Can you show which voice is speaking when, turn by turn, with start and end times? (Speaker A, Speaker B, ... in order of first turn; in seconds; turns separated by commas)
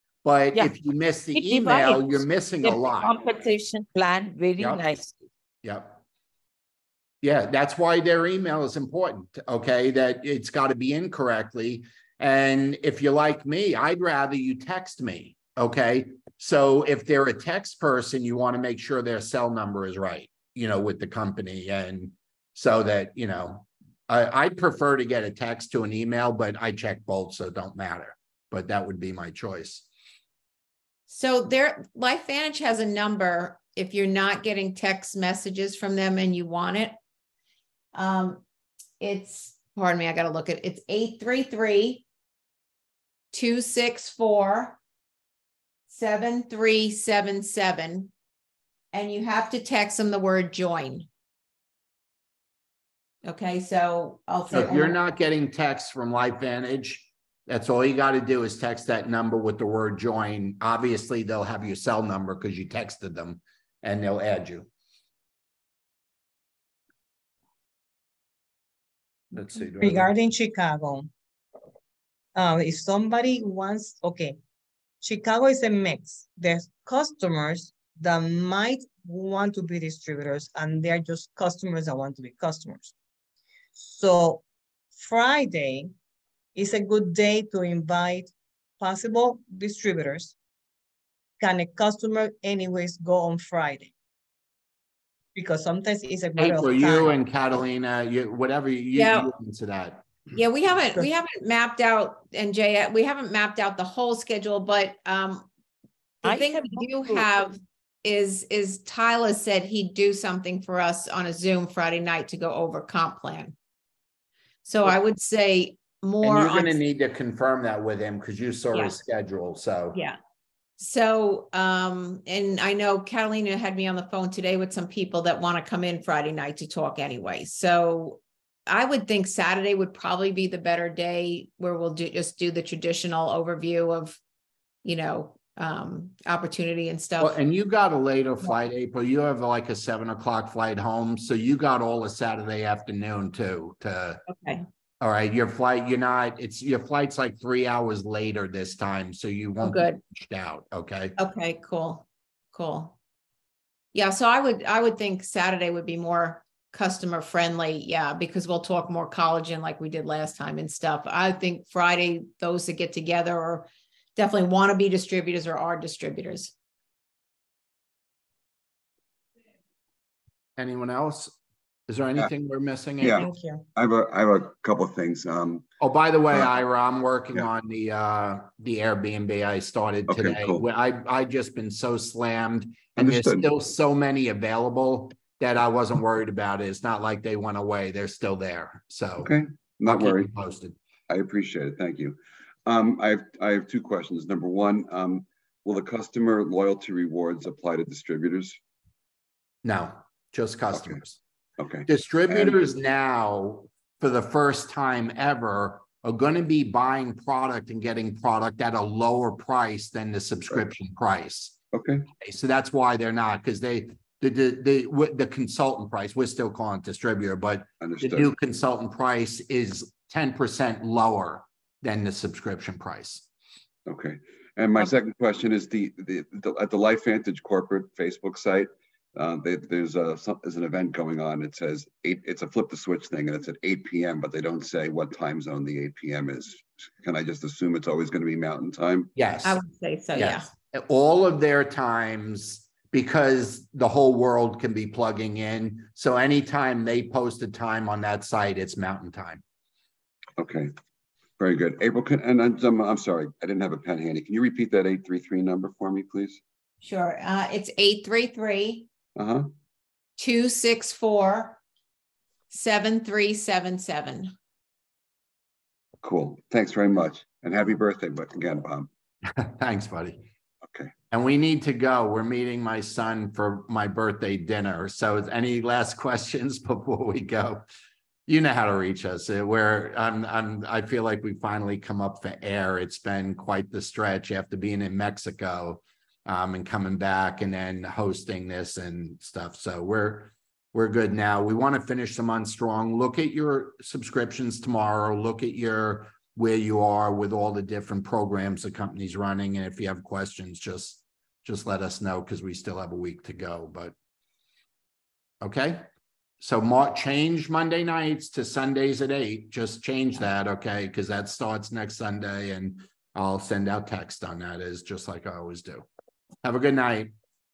Speaker A: 0.2-3.1, Speaker B: 1.3-5.1, Speaker A: 4.6-4.8, Speaker A: 5.6-6.0, Speaker A: 7.2-29.9, Speaker C: 31.1-37.0, Speaker C: 37.9-38.4, Speaker C: 39.0-42.0, Speaker C: 43.3-44.8, Speaker C: 45.9-48.1, Speaker C: 48.9-51.1, Speaker C: 53.2-55.0, Speaker A: 54.5-64.7, Speaker A: 69.3-70.1, Speaker D: 69.8-71.1, Speaker D: 72.3-74.4, Speaker D: 75.0-82.9, Speaker D: 83.8-84.4, Speaker D: 84.9-85.9, Speaker D: 86.5-90.3, Speaker D: 91.4-93.9, Speaker D: 95.3-97.1, Speaker A: 96.4-100.1, Speaker C: 98.9-99.3, Speaker C: 100.3-105.5, Speaker C: 106.2-113.5, Speaker B: 106.2-107.3, Speaker C: 114.6-116.8, Speaker A: 116.2-120.0, Speaker C: 120.8-134.2, Speaker C: 134.8-137.4, Speaker A: 137.2-144.2, Speaker C: 144.3-144.6, Speaker A: 145.0-151.1, Speaker C: 149.6-150.0, Speaker C: 151.2-152.9, Speaker C: 153.9-166.5, Speaker A: 170.6-171.3, Speaker A: 171.9-173.2, Speaker E: 173.0-175.7, Speaker C: 173.2-173.6, Speaker A: 175.8-189.3, Speaker E: 180.1-180.6, Speaker E: 183.0-183.5, Speaker E: 189.2-190.3, Speaker A: 189.8-190.7, Speaker E: 191.1-198.6, Speaker A: 199.6-201.2, Speaker E: 200.7-201.0, Speaker E: 201.6-202.6, Speaker A: 201.9-211.5, Speaker E: 211.7-212.1, Speaker A: 212.2-223.2, Speaker E: 217.8-218.3, Speaker E: 223.9-239.1, Speaker A: 239.1-239.6, Speaker C: 239.4-240.5, Speaker A: 240.1-249.4, Speaker E: 250.4-250.7, Speaker E: 251.4-256.4, Speaker C: 256.8-258.9, Speaker E: 259.1-259.5, Speaker C: 260.2-261.6, Speaker C: 262.5-264.3, Speaker E: 266.0-268.9, Speaker A: 269.3-270.2, Speaker E: 270.6-270.9, Speaker A: 271.1-277.6, Speaker A: 278.3-303.9, Speaker A: 305.4-305.9, Speaker A: 306.4-315.9, Speaker A: 316.4-317.1